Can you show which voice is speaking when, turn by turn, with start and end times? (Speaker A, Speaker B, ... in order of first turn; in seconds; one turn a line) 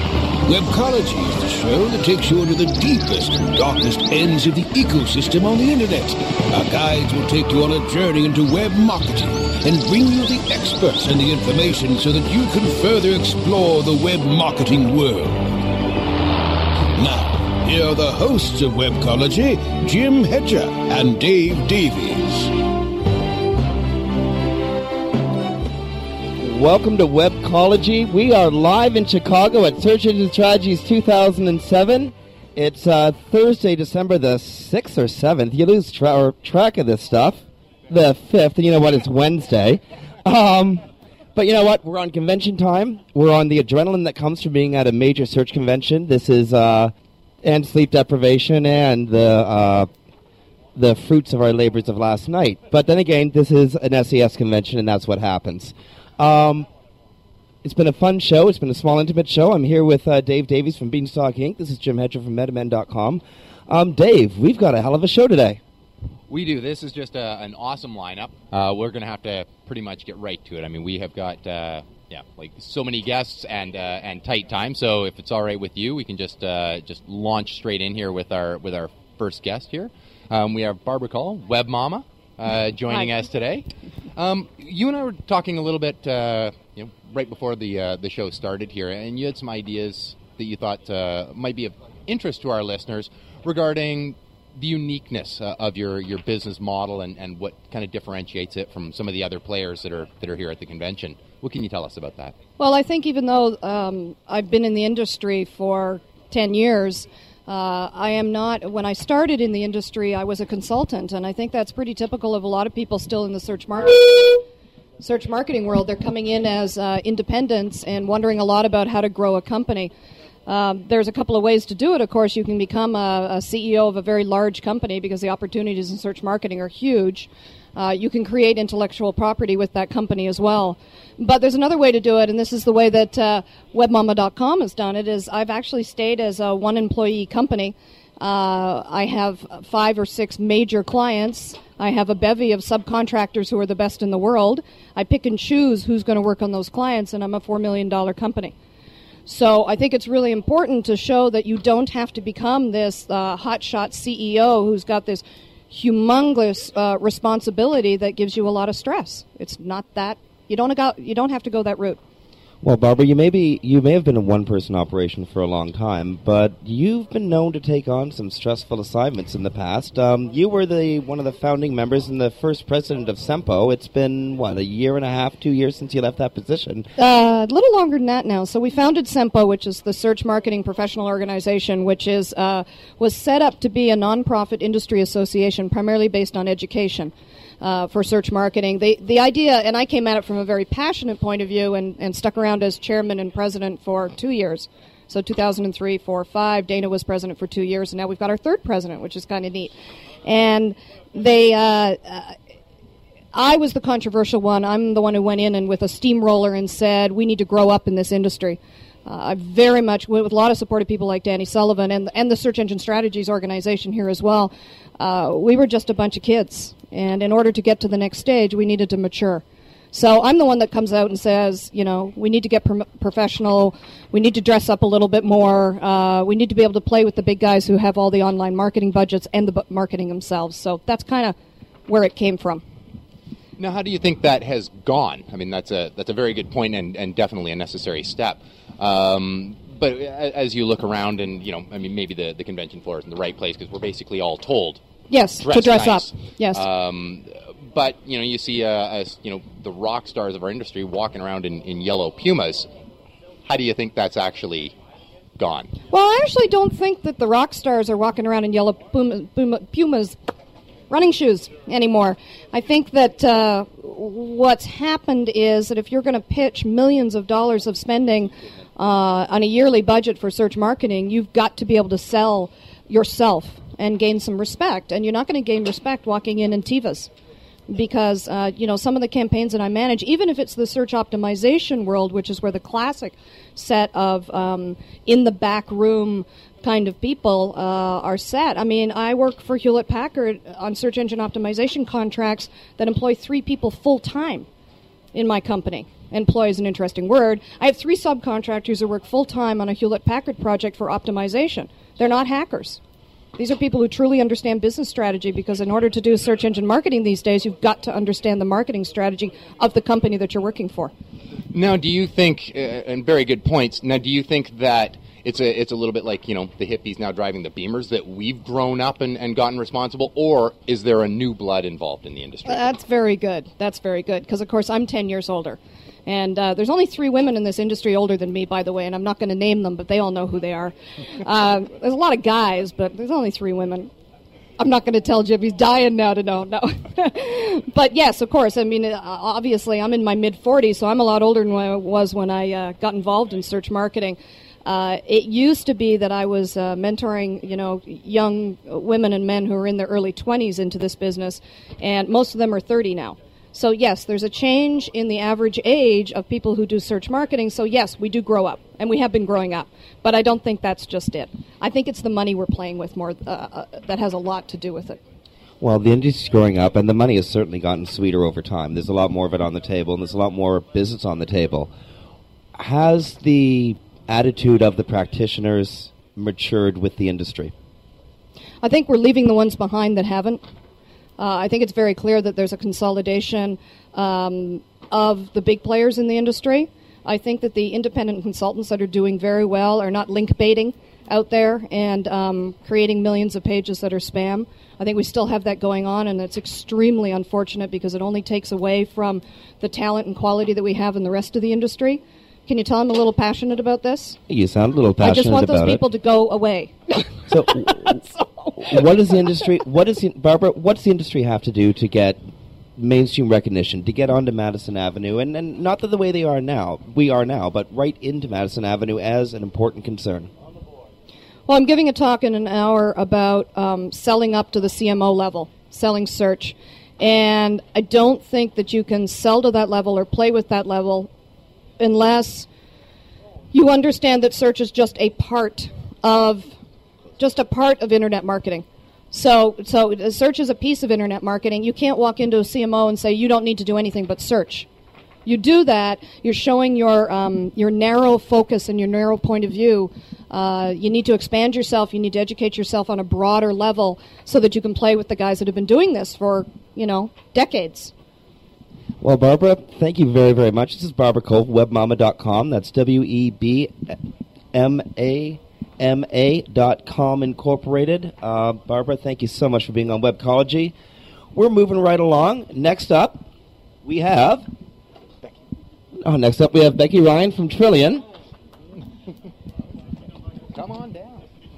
Speaker A: 0.4-15.5
Speaker A: 16.9-22.5
Speaker B: 26.4-40.8
Speaker B: 41.4-49.9
Speaker B: 50.7-56.7
Speaker B: 57.6-65.6
Speaker C: 66.3-102.3
Speaker D: 102.6-114.4
Speaker D: 115.0-119.9
Speaker D: 120.5-148.5
Speaker D: 149.3-162.0
Speaker B: 162.6-176.9
Speaker D: 177.0-199.7
Speaker D: 200.2-202.3
Speaker D: 203.3-231.3
Speaker D: 231.9-232.6
Speaker C: 233.6-244.8
Speaker D: 245.1-246.6
Speaker C: 245.4-252.7
Speaker C: 253.4-254.7
Speaker C: 255.4-255.7
Speaker D: 255.9-260.1
Speaker D: 260.9-277.1
Speaker D: 277.7-294.4
Speaker D: 295.1-302.8
Speaker D: 303.4-310.9
Speaker C: 311.5-322.6
Speaker D: 322.4-333.9
Speaker D: 334.6-365.0
Speaker B: 365.6-371.7
Speaker B: 372.5-377.5
Speaker D: 378.6-380.4
Speaker D: 381.2-404.2
Speaker B: 404.3-405.8
Speaker D: 405.0-406.8
Speaker B: 407.2-408.0
Speaker B: 408.6-412.2
Speaker B: 412.8-420.3
Speaker D: 421.5-431.1
Speaker D: 431.8-432.5
Speaker D: 433.5-436.5
Speaker D: 437.2-444.7
Speaker D: 445.2-457.9
Speaker B: 459.0-464.0
Speaker B: 464.5-470.7
Speaker B: 471.3-473.3
Speaker B: 473.8-474.4
Speaker B: 476.0-478.0
Speaker C: 480.5-481.2